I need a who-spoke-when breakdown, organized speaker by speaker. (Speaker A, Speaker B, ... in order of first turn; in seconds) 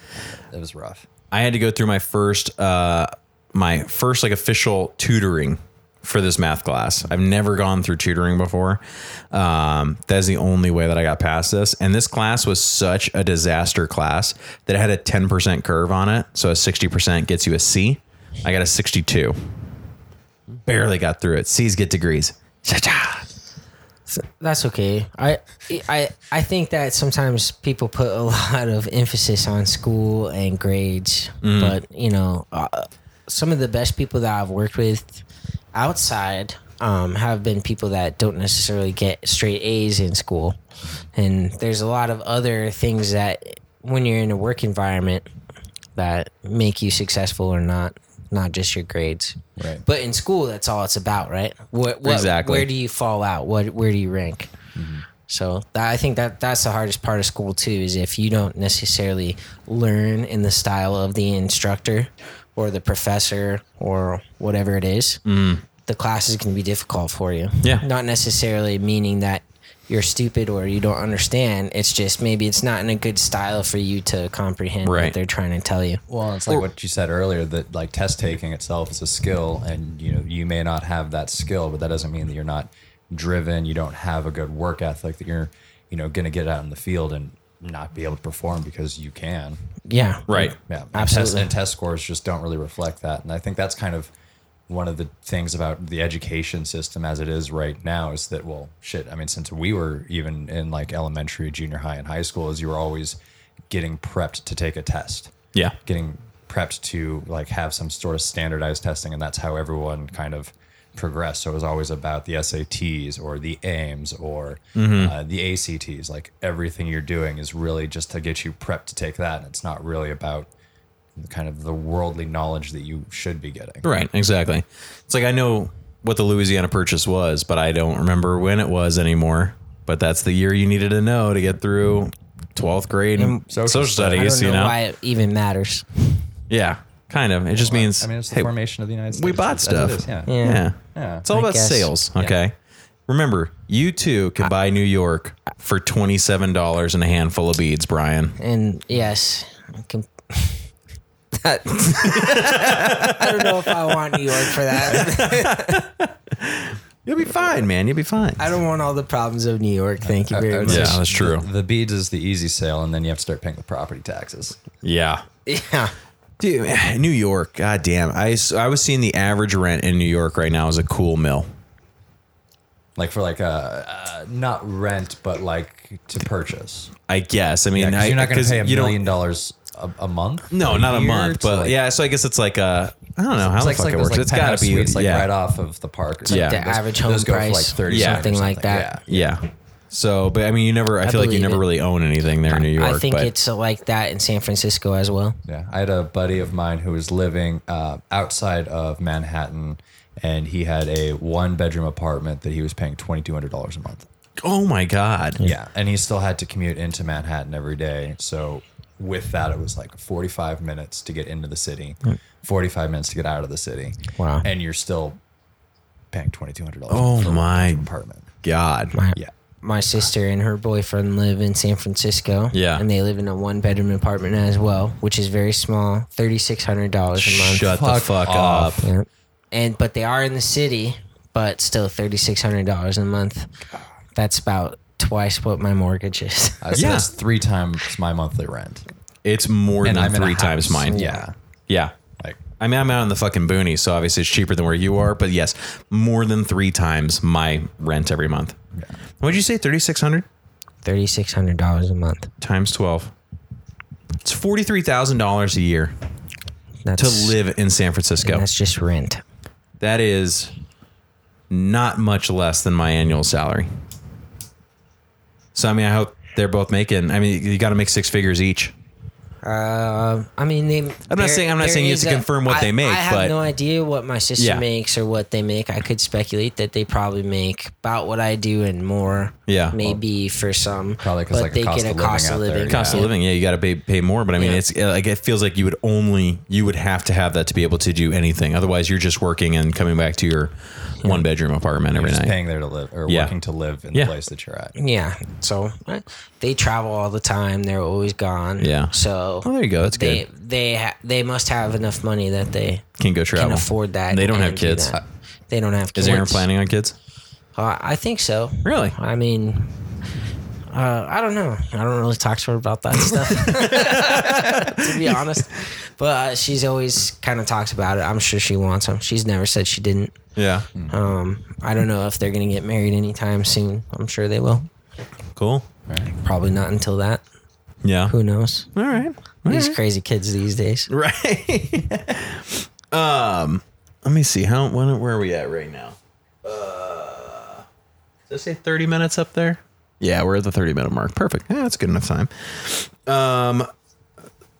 Speaker A: 0.5-1.1, 49.6-49.8, 54.7-55.0, 76.1-89.6, 90.6-94.1, 94.7-103.2, 103.7-105.3, 105.8-120.5, 121.2-123.8, 133.5-134.4, 137.5-140.3, 140.9-141.2, 160.0-164.6, 172.9-176.9, 177.7-181.8, 183.4-189.3, 195.5-204.1, 205.4-215.2, 216.1-218.3, 227.6-228.8, 236.6-238.8, 239.8-241.3, 281.0-283.1, 291.9-294.7, 325.9-326.1
Speaker B: 1.3-19.5, 20.6-23.2, 31.4-31.8, 52.0-52.7, 65.2-65.6, 74.8-75.1, 90.3-90.5, 114.8-115.1, 123.8-134.8, 136.5-138.5, 139.1-142.5, 143.1-148.4, 152.0-153.7, 154.3-158.4, 160.7-161.5, 164.8-165.2, 166.4-171.5, 177.1-179.0, 180.5-185.3, 186.3-186.6, 187.9-188.2, 189.1-193.3, 204.4-205.4, 216.9-217.8, 218.4-218.9, 222.5-222.8, 227.1-228.9, 236.7-237.1, 239.2-241.1, 242.6-248.6, 249.2-250.2, 252.4-253.1, 254.2-255.9, 257.0-258.4, 259.8-260.5, 261.5-263.7, 265.5-268.7, 271.1-273.3, 274.4-274.6, 279.5-279.8, 282.7-292.4, 293.1-293.3, 298.6-298.9, 299.4-300.2, 303.0-304.9, 305.9-306.9, 308.6-308.9, 313.4-315.4, 320.4-320.7, 325.4-325.7, 327.8-328.1, 328.7-329.8, 330.9-337.6, 338.3-343.7
Speaker C: 24.1-40.6, 41.1-45.3, 46.0-54.5, 55.2-65.2, 65.8-76.0, 89.9-91.5, 133.2-133.5, 134.1-136.2, 140.3-140.6, 141.3-141.9, 148.4-150.7, 151.3-155.8, 158.4-161.0, 165.4-165.9, 186.3-188.9, 191.0-191.6, 192.5-195.4, 214.2-214.4, 218.9-227.7, 228.8-233.5, 234.1-236.9, 240.9-241.2, 250.8-252.3, 256.8-257.4, 258.2-259.2, 269.4-283.1, 284.4-284.6, 294.8-306.4, 307.6-309.8, 310.7-320.1, 320.9-324.7, 326.2-327.2, 328.1-328.7, 329.4-330.9